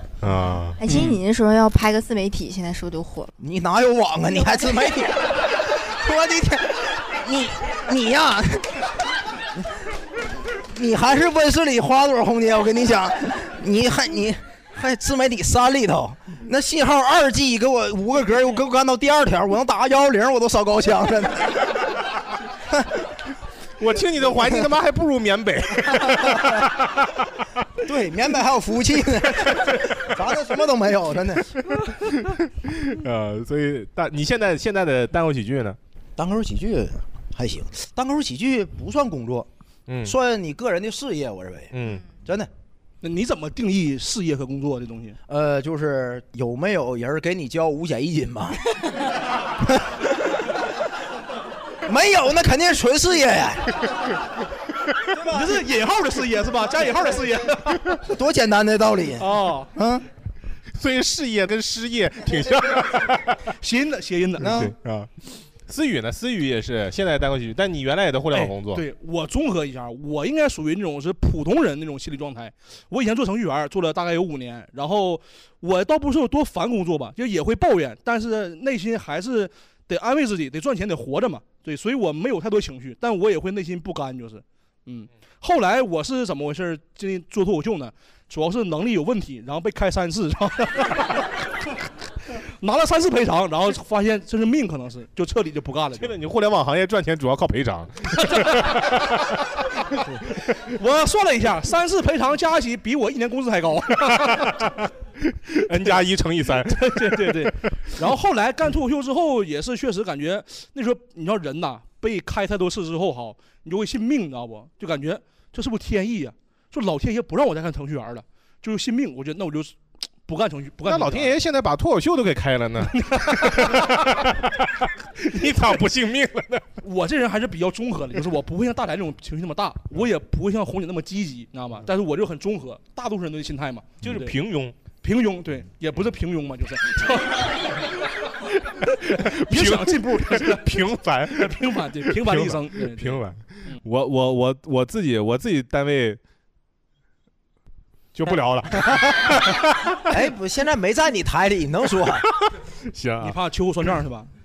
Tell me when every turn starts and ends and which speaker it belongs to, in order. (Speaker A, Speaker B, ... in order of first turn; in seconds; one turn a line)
Speaker A: 0.2-0.8
Speaker B: 0.8-3.3
Speaker C: 0.8-1.2
Speaker D: 3.4-8.9
Speaker B: 4.5-4.8
Speaker D: 10.5-21.8
Speaker A: 23.8-27.4
Speaker D: 27.8-31.5
Speaker A: 31.8-35.8
Speaker D: 36.2-39.5
Speaker A: 39.9-40.1
Speaker D: 40.0-41.7
Speaker A: 41.7-42.0
Speaker D: 42.2-42.5
Speaker C: 43.0-45.2
Speaker D: 45.3-48.8
Speaker D: 49.6-50.4
Speaker D: 51.8-53.8
Speaker C: 55.2-57.8
Speaker D: 58.0-60.0
Speaker C: 59.2-59.7
Speaker A: 60.7-63.4
Speaker C: 63.6-64.7
Speaker D: 64.4-64.7
Speaker A: 64.4-68.8
Speaker C: 68.3-91.5
Speaker C: 92.6-96.1
Speaker A: 96.0-99.2
Speaker C: 98.2-99.0
Speaker C: 100.1-104.7
Speaker A: 104.2-107.9
Speaker C: 106.5-121.4
Speaker A: 120.8-126.7
Speaker C: 122.9-124.0
Speaker C: 126.8-134.4
Speaker A: 134.0-134.8
Speaker C: 135.0-137.9
Speaker A: 139.0-146.2
Speaker C: 139.1-143.8
Speaker A: 148.1-150.1
Speaker D: 150.1-152.2
Speaker A: 152.3-153.4
Speaker C: 153.2-154.3